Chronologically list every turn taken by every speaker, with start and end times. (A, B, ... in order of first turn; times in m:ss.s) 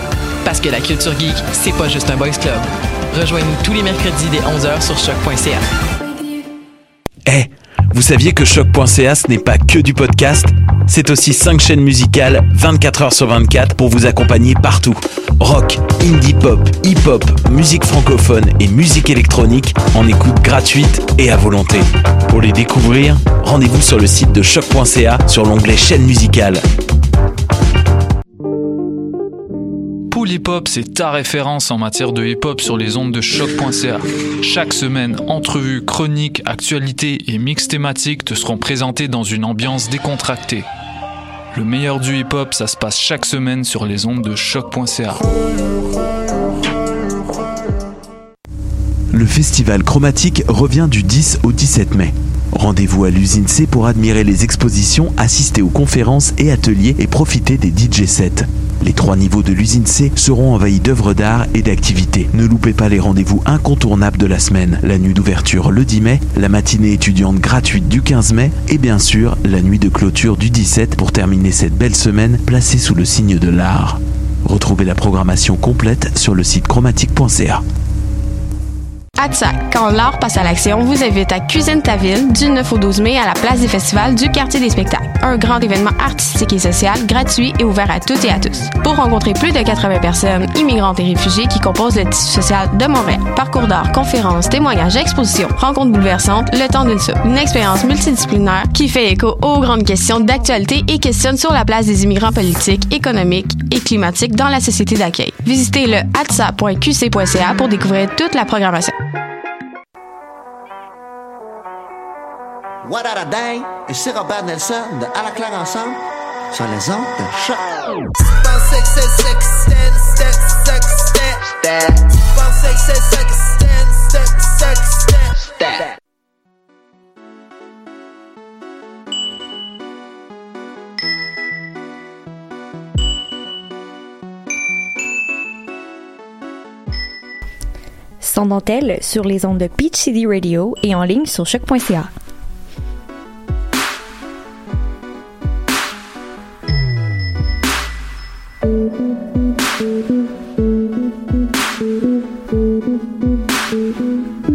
0:00.4-0:05.6 A
0:07.2-0:26.6 B
0:30.1-0:40.6 C
0:41.5-0:45.2 C
0:49.1-1:17.6 B
1:19.2-1:48.9 D
1:52.8-1:56.0 E
1:56.5-1:57.6 E
1:58.2-2:05.9 E
2:18.2-2:22.1 F